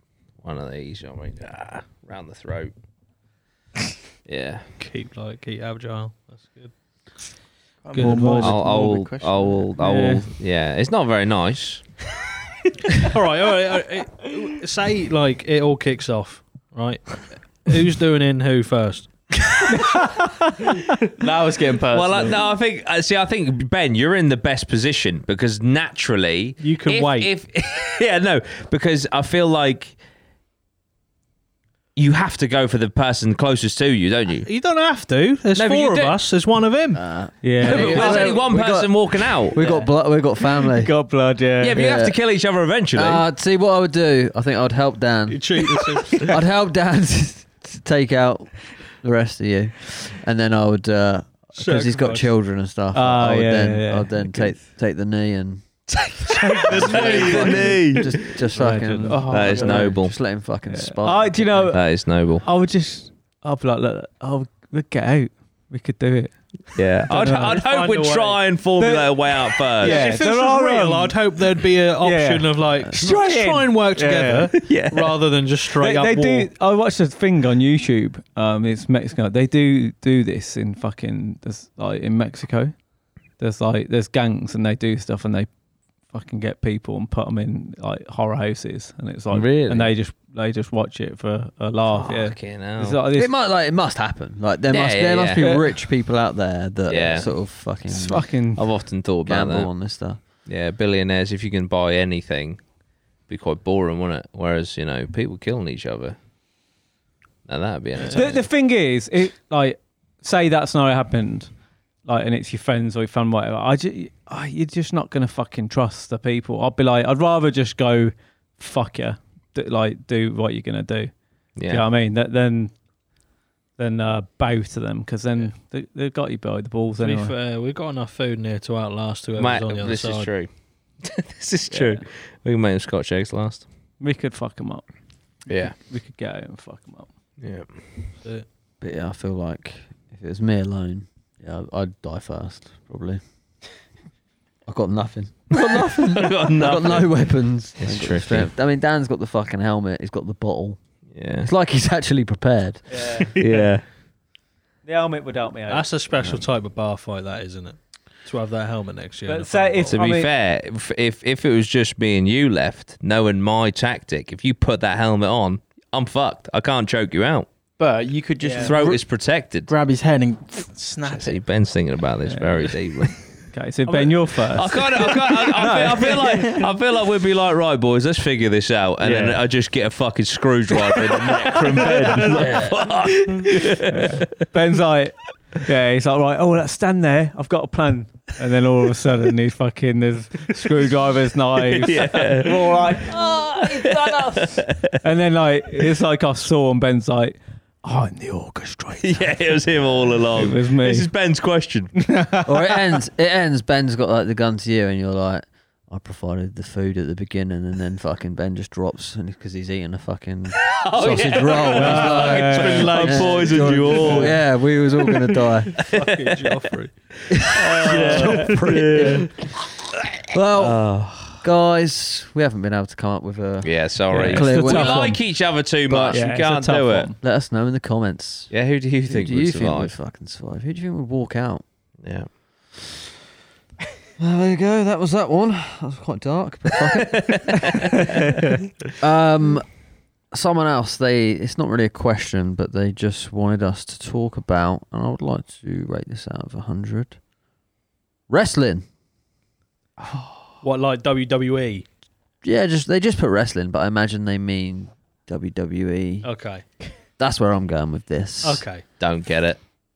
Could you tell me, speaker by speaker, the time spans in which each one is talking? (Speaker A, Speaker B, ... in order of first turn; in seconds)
Speaker A: 0.4-2.7, 4.2-4.6, 8.4-11.9, 21.9-29.9, 31.9-34.5, 35.5-36.2, 37.6-39.6, 41.6-43.2, 56.2-58.1, 59.2-60.1, 61.7-62.4, 66.8-70.0, 74.6-75.2, 89.3-89.9, 91.9-93.0, 94.7-95.4, 96.9-97.3, 98.5-99.7, 100.4-102.6, 103.3-106.2, 107.5-108.5, 121.5-121.8, 129.4-133.7, 135.5-135.8, 137.4-137.8, 145.5-147.2, 147.8-148.5, 151.1-151.5, 153.4-153.8, 156.2-156.4, 159.9-167.5, 168.6-169.7, 171.0-173.2, 174.5-184.5, 191.6-195.0, 199.0-202.0, 210.6-214.4, 215.9-216.4, 217.5-219.3, 220.5-221.4, 223.6-227.1, 228.5-229.9, 232.0-232.3, 237.1-238.4, 250.0-250.5, 259.0-259.6
Speaker B: 4.8-6.7, 7.9-8.5, 13.0-19.6, 26.6-27.3, 34.4-37.1, 37.7-38.2, 45.3-46.3, 51.5-52.3, 56.2-57.9, 67.4-68.4, 69.8-76.5, 127.0-130.3, 155.7-159.9, 182.0-182.7, 211.7-214.4, 215.7-218.9, 250.6-251.8, 256.2-256.6, 258.4-258.8
Speaker C: 7.8-9.7, 21.2-22.4, 167.8-169.0, 169.7-171.4
Speaker D: 7.9-8.6, 9.8-10.3, 37.4-38.3, 39.6-39.9, 40.5-41.8, 52.9-54.6, 58.5-59.9, 60.7-67.6, 68.8-71.3, 72.0-74.5, 75.7-82.7, 83.4-85.5, 86.1-93.3, 95.4-95.7, 97.9-98.6, 108.1-111.5, 112.0-121.1, 121.7-122.7, 123.8-127.3, 131.7-132.0, 134.0-134.9, 135.5-137.1, 152.9-153.4, 154.8-155.9, 159.2-160.3, 168.4-168.8, 172.2-176.6, 179.0-179.4, 181.1-182.7, 183.5-199.6, 200.3-201.1, 202.0-202.5, 211.8-213.2, 224.1-225.2, 226.1-227.2
Speaker E: 36.9-40.9, 41.7-42.2, 42.9-55.6, 56.7-61.7, 72.9-73.2, 93.1-98.2, 99.2-100.2, 138.8-143.2, 144.7-150.8, 151.4-153.2, 202.4-215.8, 217.3-219.3, 220.3-225.2, 225.9-226.2, 227.2-228.5, 229.0-231.6, 234.2-237.9, 238.9-239.7, 240.3-247.2, 248.3-248.9, 252.4-256.3, 257.2-258.6